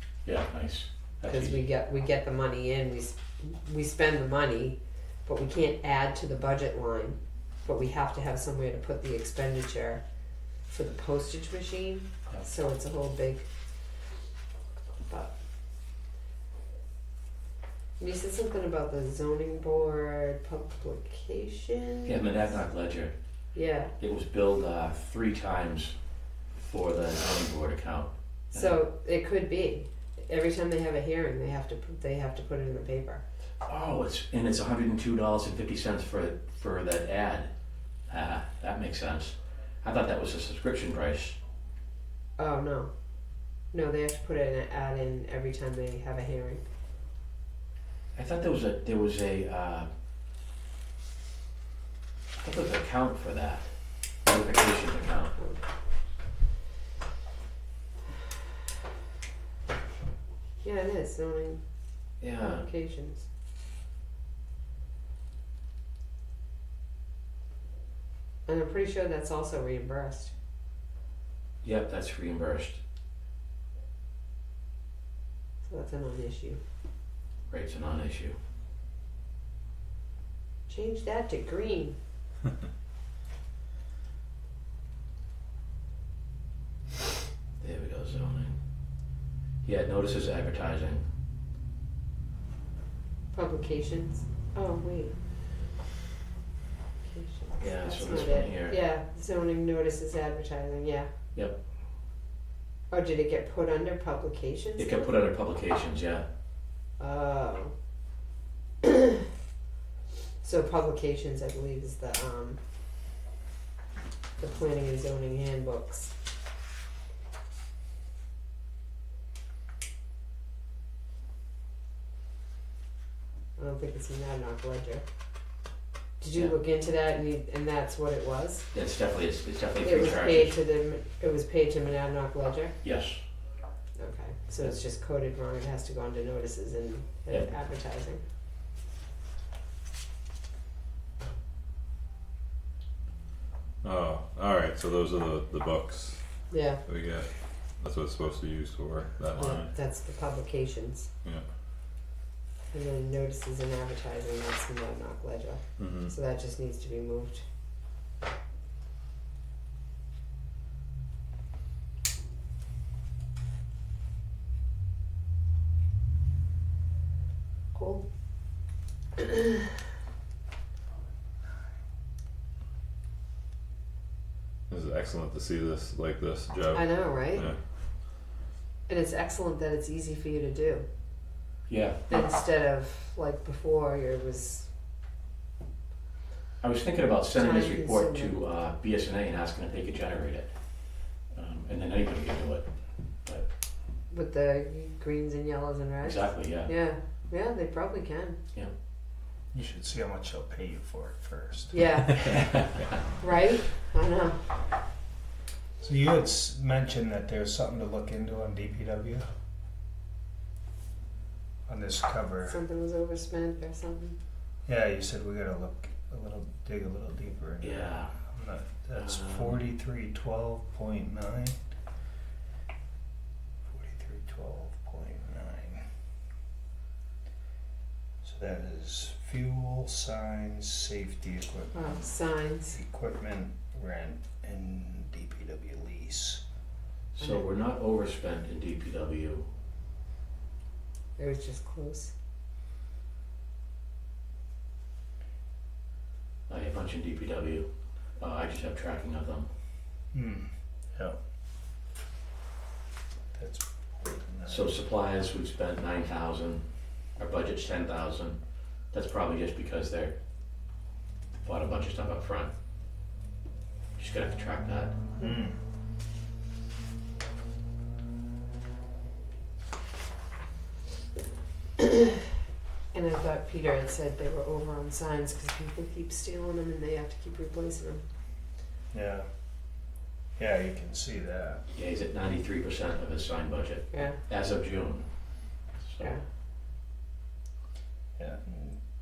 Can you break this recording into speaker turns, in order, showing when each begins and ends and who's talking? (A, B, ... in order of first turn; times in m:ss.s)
0:00.2-0:01.6 A
0:01.2-0:10.0 B
0:10.7-0:13.5 B
0:18.0-0:22.2 B
0:22.0-0:23.1 A
0:23.5-0:23.9 B
0:24.0-0:25.9 A
0:26.6-0:28.8 A
0:28.5-0:33.2 B
0:33.6-0:37.5 A
0:38.1-0:41.4 A
0:42.4-0:42.9 B
0:43.7-0:46.6 B
0:48.1-0:49.9 A
0:52.4-0:53.6 A
0:54.2-0:55.3 A
1:00.6-1:01.6 B
1:02.2-1:02.6 A
1:02.4-1:03.2 B
1:08.5-1:10.3 B
1:11.6-1:12.8 A
1:15.6-1:16.6 B
1:17.5-1:18.4 A
1:20.7-1:22.0 B
1:27.6-1:28.5 A
1:29.6-1:31.0 A
1:33.3-1:35.1 B
1:37.0-1:41.1 B
1:37.6-1:38.8 A
1:42.9-1:45.1 B
1:44.8-1:46.3 A
1:47.0-1:47.7 B
1:48.8-1:49.2 B
1:50.4-1:52.6 B
1:54.4-1:56.1 B
2:03.6-2:05.0 B
2:06.2-2:08.7 B
2:08.7-2:10.5 A
2:09.8-2:12.8 B
2:12.8-2:13.2 A
2:14.0-2:18.2 B
2:23.8-2:26.2 C
2:26.5-2:26.8 B
2:26.8-2:27.3 C
2:27.8-2:29.7 C
2:29.4-2:31.1 B
2:32.7-2:37.4 B
2:35.8-2:36.1 C
2:47.7-2:48.0 B
2:49.2-2:49.6 B
2:54.7-2:57.6 C
2:56.7-2:57.5 B
2:58.9-3:00.8 B
3:01.7-3:02.3 A
3:02.1-3:04.7 B
3:06.6-3:10.5 A
3:07.3-3:08.4 B
3:11.3-3:12.7 A
3:14.1-3:18.4 B
3:16.0-3:16.7 A
3:19.5-3:22.4 D
3:21.7-3:22.4 B
3:22.3-3:22.6 A
3:23.2-3:24.4 B
3:25.8-3:29.3 D
3:31.7-3:32.6 D
3:32.4-3:34.2 B
3:34.6-3:41.6 D
3:37.6-3:38.1 A
3:38.9-3:39.6 A
3:43.6-3:45.8 D
3:48.2-3:56.4 D
3:51.7-3:52.8 B
3:57.2-3:59.4 A
3:57.2-3:57.4 B
4:01.2-4:02.1 B
4:06.5-4:07.7 A
4:08.2-4:09.5 A
4:10.1-4:11.2 D
4:13.3-4:14.8 D
4:14.5-4:16.6 A
4:17.2-4:18.4 A
4:18.9-4:20.1 A
4:21.4-4:22.5 A
4:24.0-4:24.9 A
4:25.2-4:25.5 D
4:31.8-4:32.1 B
4:32.9-4:38.0 B
4:38.9-4:39.3 D
4:40.4-4:41.6 D
4:41.7-4:45.0 A
4:43.9-4:44.2 B
4:45.8-4:46.2 A
4:48.2-4:48.8 D